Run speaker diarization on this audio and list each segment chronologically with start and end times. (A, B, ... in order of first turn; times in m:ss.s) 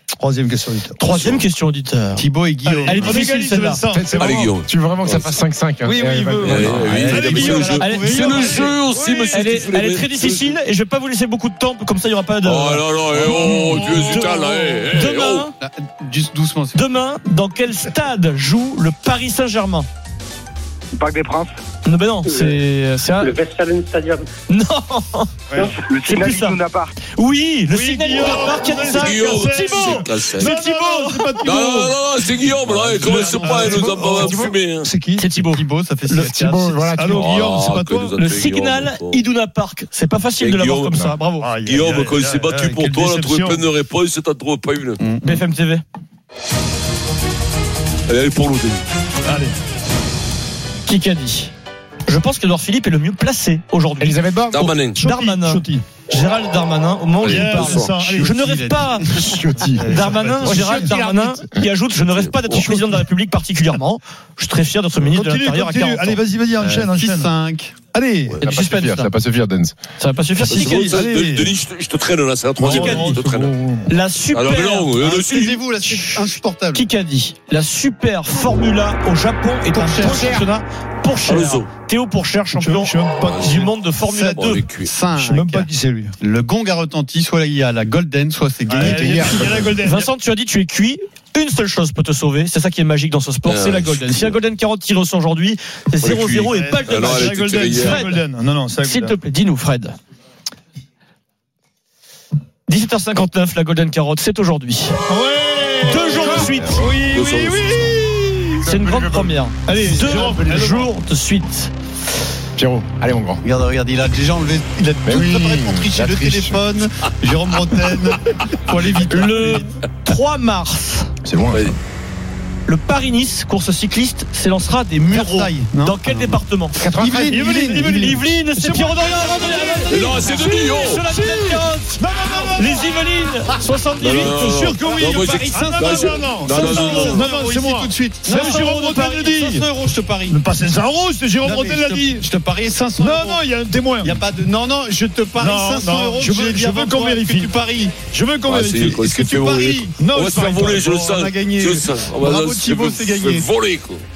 0:00.1-0:01.0 A
0:01.0-0:02.3 B
0:01.1-0:01.4 C
0:02.2-0:03.2 D
0:02.6-0:04.5 A
0:02.9-0:03.8 B
0:03.9-0:07.2 E
0:04.2-0:05.4 C
0:05.8-0:06.7 A
0:06.4-0:10.6 C
0:06.7-0:08.8 D
0:07.1-0:15.5 B
0:08.8-0:09.3 A
0:12.4-0:15.5 C
0:13.3-0:14.2 A
0:15.6-0:16.8 D
0:16.7-0:19.9 B
0:21.0-0:21.5 F
0:21.8-0:23.4 B
0:22.3-0:22.5 F
0:23.2-0:24.3 F
0:24.5-0:25.4 B
0:25.5-0:25.8 A
0:25.6-0:26.9 F
0:26.0-0:26.6 B
0:27.1-0:31.6 B
0:27.6-0:32.0 A
0:28.9-0:30.5 C
0:31.4-0:34.9 C
0:32.7-0:34.6 E
0:32.9-0:35.4 A
0:33.1-0:33.6 B
0:35.2-0:36.3 B
0:35.4-0:36.9 D
0:36.2-0:37.4 E
0:37.0-0:38.1 A
0:37.1-0:39.2 C
0:38.2-0:41.5 B
0:40.4-0:45.0 C
0:41.4-0:43.6 A
0:45.0-0:45.4 D
0:45.2-0:45.8 B
0:48.1-0:48.8 C
0:49.2-0:49.5 A
0:50.8-0:51.5 B
0:52.1-1:06.2 B
0:54.0-0:54.7 E
0:54.5-0:55.0 C
0:55.0-0:55.8 A
0:57.2-0:58.0 C
0:57.2-0:59.0 A
0:58.2-0:58.9 D
0:59.1-1:01.6 E
0:59.8-1:00.9 A
1:02.1-1:02.8 C
1:05.0-1:07.3 A
1:06.6-1:07.7 D
1:07.9-1:08.4 A
1:08.4-1:09.1 B
1:08.4-1:09.7 E
1:10.0-1:11.0 B
1:10.4-1:11.5 A
1:10.4-1:13.5 C
1:12.6-1:13.8 E
1:12.6-1:13.7 A
1:12.7-1:13.2 B
1:13.9-1:15.1 B
1:14.3-1:15.6 C
1:15.0-1:16.8 D
1:15.8-1:24.6 B
1:19.7-1:20.1 A
1:19.8-1:20.3 D
1:20.0-1:20.5 E
1:21.2-1:21.7 C
1:22.6-1:23.6 A
1:23.2-1:23.7 C
1:24.0-1:25.7 D
1:24.3-1:24.9 C
1:25.1-1:26.1 A
1:26.2-1:29.7 D
1:28.7-1:30.1 A
1:28.8-1:29.7 E
1:29.8-1:38.2 B
1:33.4-1:34.4 C
1:36.0-1:38.2 C
1:36.5-1:39.2 A
1:38.8-1:40.0 B
1:42.7-1:45.0 B
1:45.1-1:48.6 A
1:45.8-1:46.8 B
1:46.8-1:48.0 C
1:48.6-1:50.8 E
1:48.6-1:51.7 B
1:49.7-1:50.8 A
1:52.6-1:53.4 E
1:53.4-1:59.7 D
1:55.0-1:56.8 E
1:59.0-2:01.1 B
1:59.1-1:59.6 E
2:01.2-2:01.8 E
2:01.5-2:01.8 C
2:02.6-2:06.8 B
2:05.1-2:08.2 D
2:06.7-2:07.3 E
2:07.2-2:10.0 A
2:07.8-2:17.2 B
2:09.9-2:11.0 C
2:11.0-2:13.0 A
2:14.0-2:17.3 C
2:14.3-2:19.7 A
2:15.5-2:20.4 D
2:18.2-2:19.6 B
2:20.3-2:22.3 A
2:21.4-2:23.4 D
2:23.0-2:24.2 A
2:24.0-2:28.0 D
2:25.4-2:27.5 A
2:28.1-2:29.2 A
2:28.4-2:34.0 C
2:29.0-2:29.9 D
2:30.0-2:31.0 A
2:30.8-2:33.5 D